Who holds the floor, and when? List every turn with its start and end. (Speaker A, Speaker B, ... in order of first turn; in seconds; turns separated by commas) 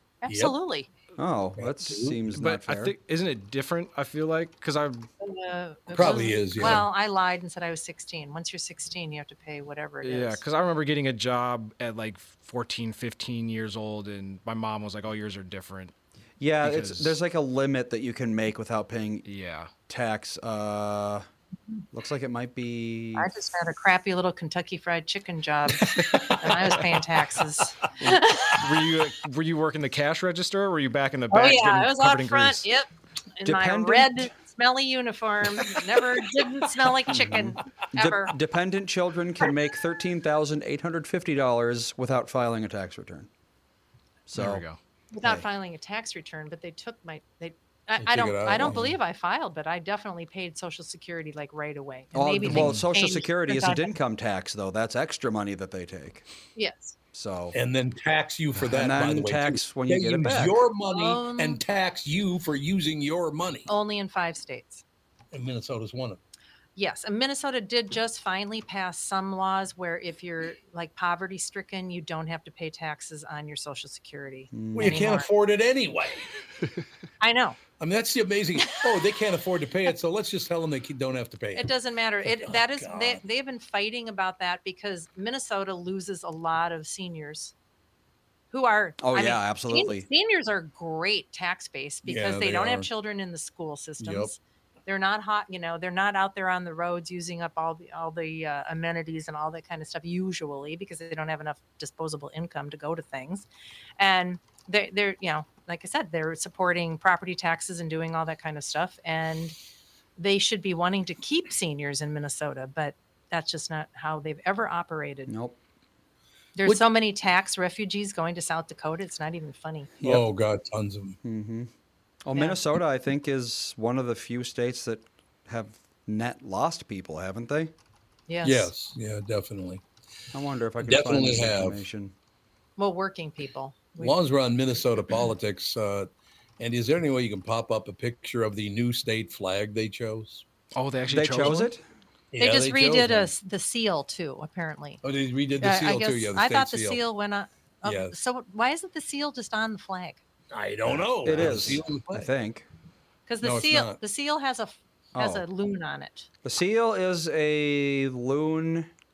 Speaker A: 0.2-0.9, Speaker B: 0.3-0.6, Speaker C: 1.2-2.9, Speaker B: 1.6-2.2, Speaker D: 2.3-5.1, Speaker A: 5.2-10.4, Speaker B: 5.9-6.9, Speaker D: 10.0-15.9, Speaker C: 16.4-19.3, Speaker D: 16.6-17.2, Speaker D: 19.2-19.7, Speaker C: 19.9-21.3, Speaker C: 21.9-23.3, Speaker A: 23.1-28.6, Speaker B: 26.1-26.4, Speaker D: 28.5-32.6, Speaker A: 31.3-38.3, Speaker C: 33.4-34.3, Speaker C: 37.1-43.3, Speaker C: 44.3-44.6, Speaker D: 44.3-44.8, Speaker A: 45.1-53.9, Speaker B: 48.0-48.9, Speaker C: 52.1-56.2, Speaker D: 52.5-52.8, Speaker A: 56.5-57.0, Speaker C: 57.1-57.5, Speaker B: 57.5-63.7, Speaker C: 58.6-60.6, Speaker A: 60.9-61.6, Speaker A: 63.7-64.8, Speaker B: 65.3-66.2, Speaker A: 66.8-75.3, Speaker C: 74.5-75.1, Speaker B: 74.7-76.3, Speaker A: 77.2-77.6, Speaker B: 77.8-81.7, Speaker A: 81.5-87.5, Speaker B: 82.2-83.2, Speaker A: 88.5-103.5, Speaker C: 89.0-90.1, Speaker B: 92.0-92.9, Speaker B: 94.0-94.3, Speaker A: 104.0-109.5, Speaker A: 110.2-115.3, Speaker C: 115.3-115.6, Speaker A: 116.5-119.9, Speaker B: 120.0-121.2, Speaker C: 121.2-121.7, Speaker C: 122.2-127.7, Speaker A: 122.3-122.6, Speaker A: 128.3-128.7, Speaker B: 128.4-129.8, Speaker C: 130.3-132.1, Speaker B: 130.8-131.8, Speaker A: 132.8-134.2, Speaker B: 134.0-140.4, Speaker D: 140.7-141.7, Speaker C: 141.1-141.8, Speaker B: 142.3-143.3, Speaker A: 142.4-145.0, Speaker B: 145.0-147.0, Speaker A: 145.6-150.2, Speaker B: 147.8-148.2, Speaker B: 150.5-152.3, Speaker C: 150.8-152.7, Speaker A: 153.3-156.3, Speaker B: 153.4-154.0, Speaker C: 155.1-155.4, Speaker C: 156.4-158.9